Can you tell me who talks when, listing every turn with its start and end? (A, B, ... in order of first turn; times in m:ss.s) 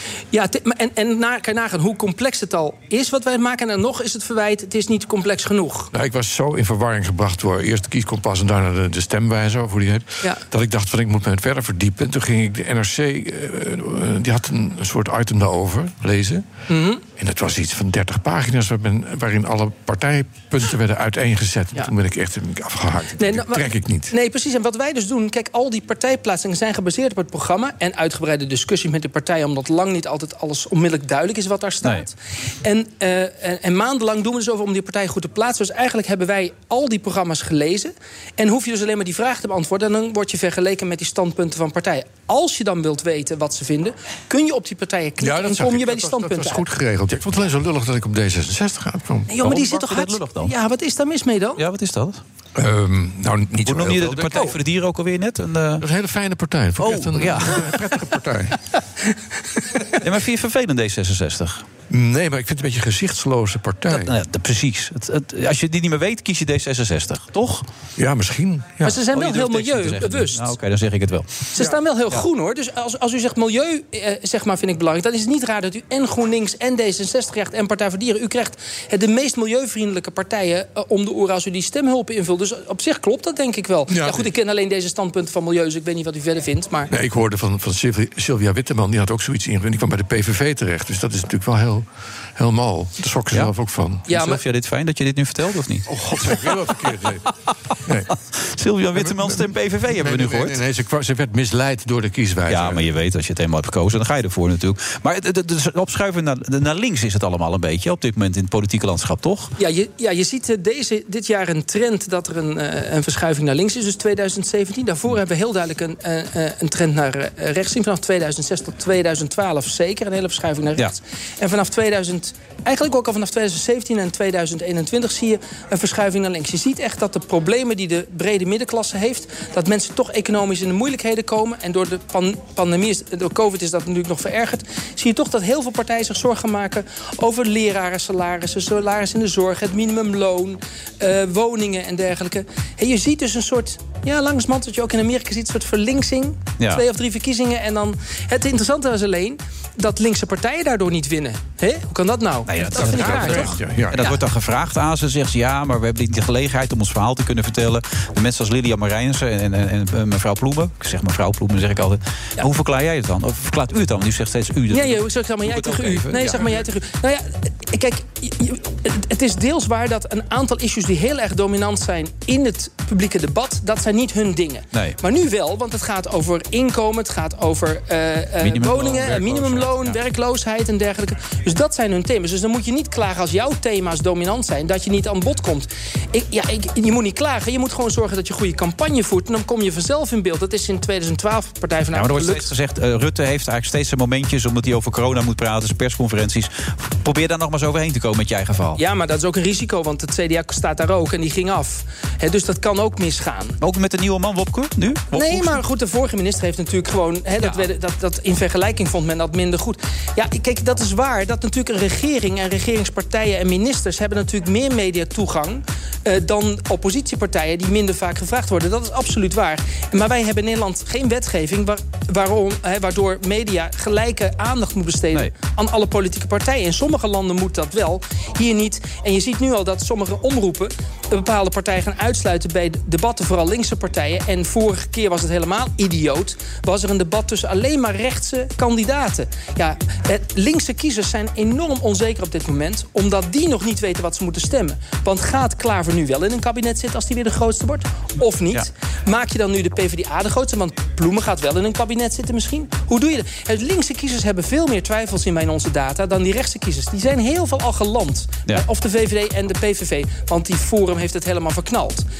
0:00.3-0:05.9 A
0:05.9-0:16.4 B
0:16.7-0:17.0 A
0:17.1-0:24.1 B
0:23.2-0:46.7 A
0:45.2-0:49.3 B
0:49.3-0:51.6 A
0:49.4-0:50.5 C
0:51.6-0:52.2 C
0:52.6-0:54.5 B
0:53.6-0:55.8 C
0:55.8-0:58.6 B
0:56.8-0:57.8 C
1:00.0-1:01.7 C
1:01.9-1:04.1 B
1:03.9-1:07.6 C
1:08.0-1:09.0 B
1:08.8-1:10.5 A
1:09.1-1:12.2 C
1:11.5-1:26.9 A
1:23.9-1:24.3 B
1:26.9-1:31.8 B
1:32.4-1:34.1 B
1:34.1-1:34.4 A
1:34.1-1:35.9 C
1:35.9-1:37.3 B
1:37.8-1:38.1 B
1:38.3-1:40.6 C
1:39.0-1:42.8 B
1:42.5-1:49.5 C
1:49.6-2:34.2 A
2:26.6-2:26.8 C
2:32.5-2:46.7 C
2:32.7-2:34.1 B
2:44.7-3:12.5 A
2:54.7-2:55.0 C
2:58.4-3:00.0 C
3:11.9-3:18.8 C
3:18.8-3:23.6 A
3:23.6-3:25.6 C
3:25.1-4:22.0 A
3:27.4-3:27.7 C